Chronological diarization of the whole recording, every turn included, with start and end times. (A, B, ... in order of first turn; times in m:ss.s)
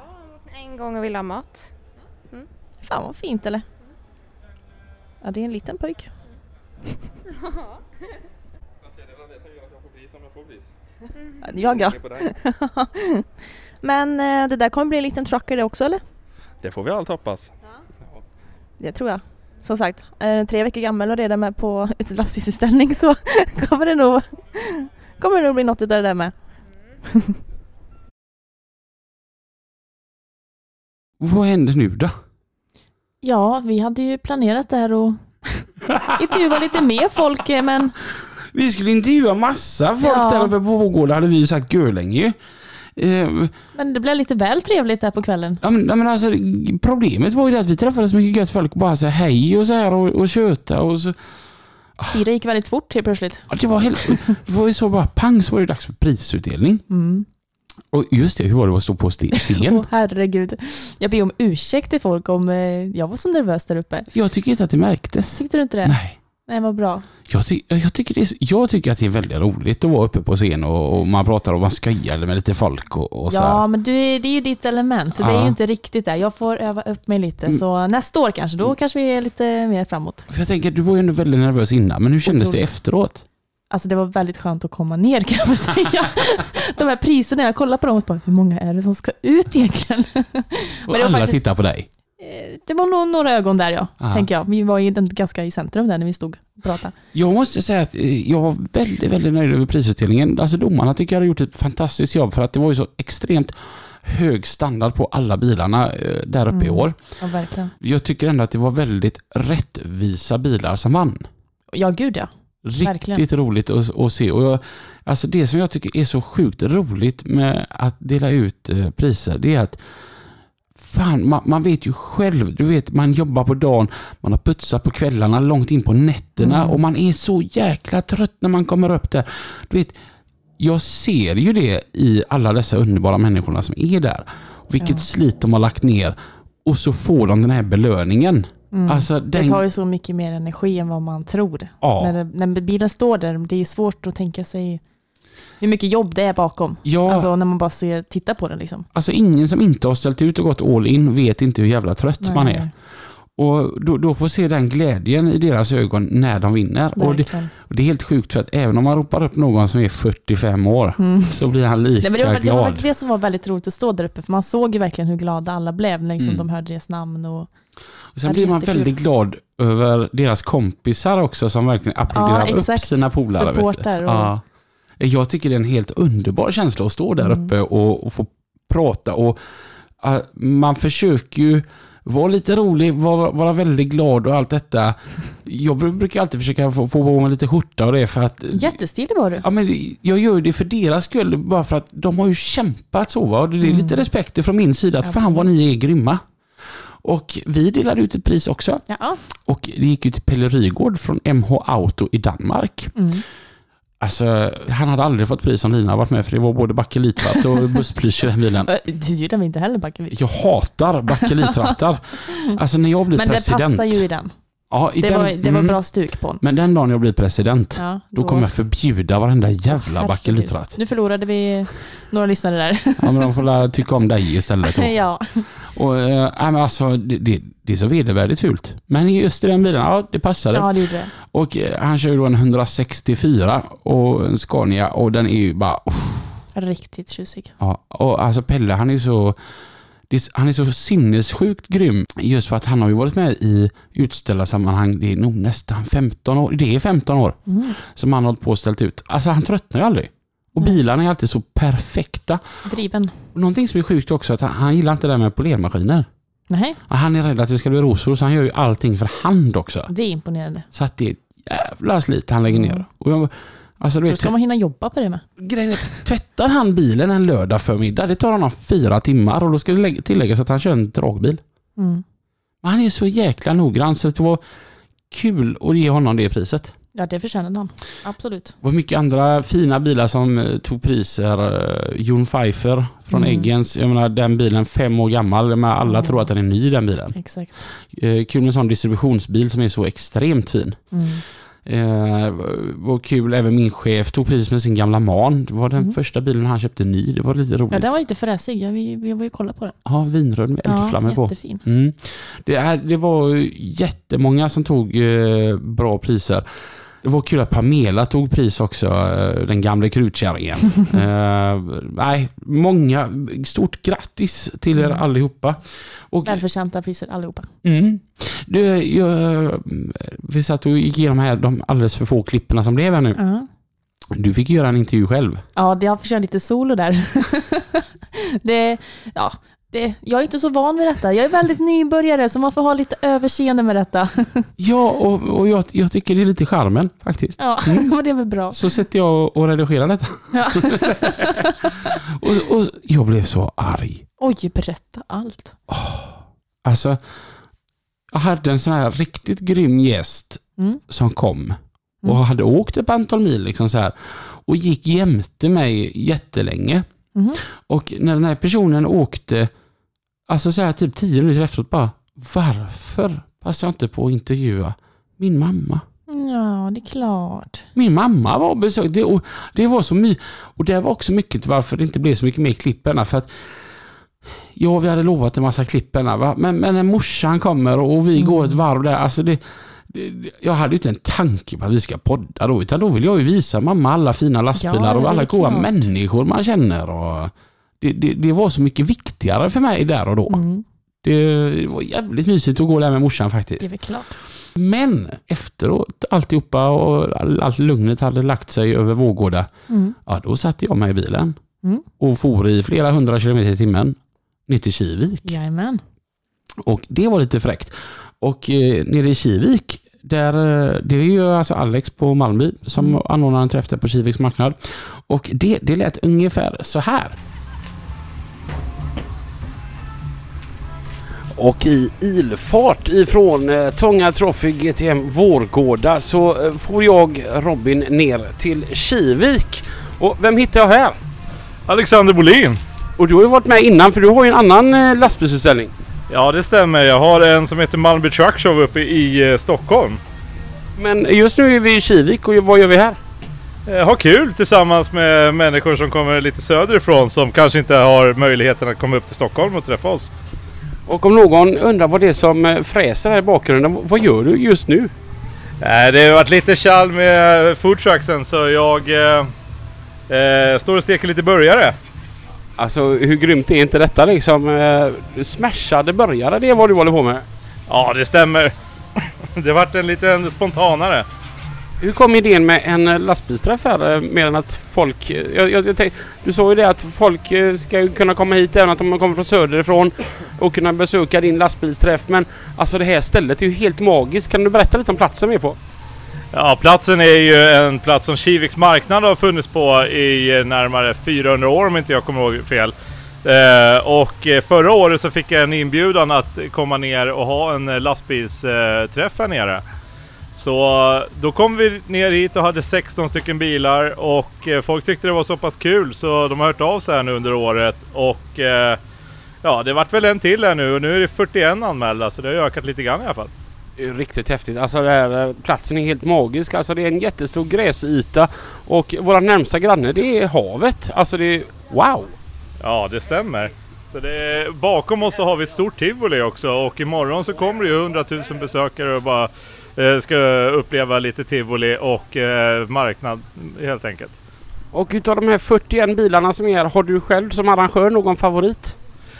0:00.3-0:01.7 A
0:02.8-0:03.6 B
0:05.2-0:06.1 B
0:07.4-0:07.8 A
0:09.7-0:10.6 C
0:11.2-0:11.4 A
0:11.4-0:13.2 B
0:11.5-0:12.3 C
0:13.8-0:16.0 B
0:16.6-0:17.5 C
0:18.8-0:26.3 B
0:31.2-0:32.1 D
0:33.2-0:38.0 B
0:38.5-0:42.4 D
0:40.0-0:40.5 B
0:43.0-0:43.5 D
0:43.8-0:45.6 B
0:45.6-0:51.2 D
0:52.1-0:53.5 B
0:53.5-0:56.8 D
0:54.0-0:54.4 B
0:56.9-0:57.2 B
0:57.9-0:59.9 D
0:59.3-1:04.1 B
1:04.1-1:06.2 D
1:05.3-1:07.1 B
1:07.3-1:13.6 D
1:13.3-1:20.3 B
1:15.2-1:15.6 D
1:20.3-1:23.2 D
1:22.2-1:22.7 B
1:23.7-1:31.4 B
1:30.9-1:31.9 D
1:32.2-1:36.9 B
1:34.0-1:34.3 D
1:37.1-1:47.0 D
1:46.5-1:47.7 B
1:47.8-1:51.2 D
1:51.7-1:53.2 B
1:52.6-1:59.8 D
2:00.8-2:10.0 D
2:06.4-2:06.8 B
2:10.6-2:19.6 D
2:14.8-2:15.1 B
2:18.7-2:24.8 B
2:21.8-2:22.1 D
2:25.6-2:28.9 B
2:26.8-2:27.3 D
2:28.9-2:32.7 D
2:32.2-2:32.7 B
2:33.4-2:42.9 D
2:37.0-2:37.5 B
2:41.0-2:41.4 B
2:42.0-2:47.5 B
2:46.2-2:46.4 D
2:48.1-2:54.4 D
2:48.2-2:48.9 B
2:52.1-2:54.3 B
2:55.0-2:59.4 D
2:57.2-2:57.5 B
3:00.0-3:08.8 D
3:08.5-3:09.4 B
3:09.4-3:16.2 D
3:13.6-3:14.1 B
3:15.0-3:15.6 B
3:17.0-3:18.8 D
3:18.9-3:19.2 B
3:19.5-3:22.9 D
3:23.0-3:23.2 B
3:24.0-3:28.7 D
3:28.7-3:30.2 B
3:30.1-3:34.0 D
3:31.1-3:31.7 B
3:32.3-3:32.6 B
3:33.2-3:34.3 B
3:34.7-3:35.8 D
3:35.0-3:36.4 B
3:36.4-3:40.7 D
3:37.8-3:38.5 B
3:39.7-3:43.4 B
3:43.0-3:44.9 D
3:44.6-3:45.5 B
3:45.7-3:56.4 D
3:50.5-3:51.1 B
3:56.6-3:57.5 B
3:57.6-3:59.4 D
4:00.1-4:12.4 D
4:07.5-4:07.8 B
4:12.7-4:13.1 B
4:13.3-4:16.1 D
4:16.5-4:16.8 B
4:16.9-4:19.9 D
4:19.9-4:20.7 B
4:20.7-4:24.3 D
4:22.5-4:22.8 B
4:24.1-4:25.2 B
4:25.4-4:31.4 D
4:31.8-4:32.0 B
4:32.6-4:34.4 D
4:35.1-4:36.7 D
4:36.9-4:38.6 B
4:38.6-4:47.2 D
4:43.1-4:43.5 B
4:45.8-4:46.3 B
4:47.2-4:47.7 B
4:47.8-4:50.8 D
4:50.9-4:51.2 B
4:51.7-4:57.9 D
4:57.7-4:59.8 B
4:59.8-5:06.4 D
5:00.6-5:01.6 B
5:07.0-5:16.4 D
5:14.8-5:15.0 B
5:16.2-5:17.5 B
5:17.6-5:23.2 D
5:23.2-5:23.5 B
5:24.1-5:25.4 D
5:25.6-5:34.5 B
5:34.6-5:37.9 D
5:37.4-5:38.6 B
5:38.5-5:44.0 D
5:40.3-5:41.7 B
5:44.2-5:45.6 B
5:45.7-5:47.0 D
5:48.1-5:56.8 D
5:57.2-5:57.4 B
5:57.7-5:59.5 D
6:00.3-6:05.8 D
6:06.1-6:07.7 B
6:07.7-6:13.3 D
6:14.6-6:30.4 D
6:18.2-6:18.6 B
6:24.6-6:25.9 B
6:30.3-6:30.6 B
6:31.0-6:33.7 D
6:33.6-6:34.2 B
6:34.6-6:39.5 D
6:39.7-6:40.0 B
6:40.1-6:41.4 D
6:42.0-6:45.4 D
6:45.2-6:45.8 B
6:46.6-6:57.2 D
7:01.3-7:11.0 D
7:11.7-7:12.6 E
7:13.0-7:15.7 D
7:16.1-7:20.0 E
7:20.8-7:23.0 D
7:23.7-7:30.1 E
7:30.9-7:34.9 D
7:35.6-7:39.3 E
7:40.1-7:41.7 E
7:42.6-7:47.2 D
7:47.7-7:48.5 E
7:49.4-7:51.1 E
7:51.8-8:05.6 D
8:06.3-8:19.6 E
8:20.3-8:28.8 E
8:29.4-8:33.3 E
8:33.8-8:42.1 D
8:42.6-8:54.1 E
8:54.7-8:58.8 D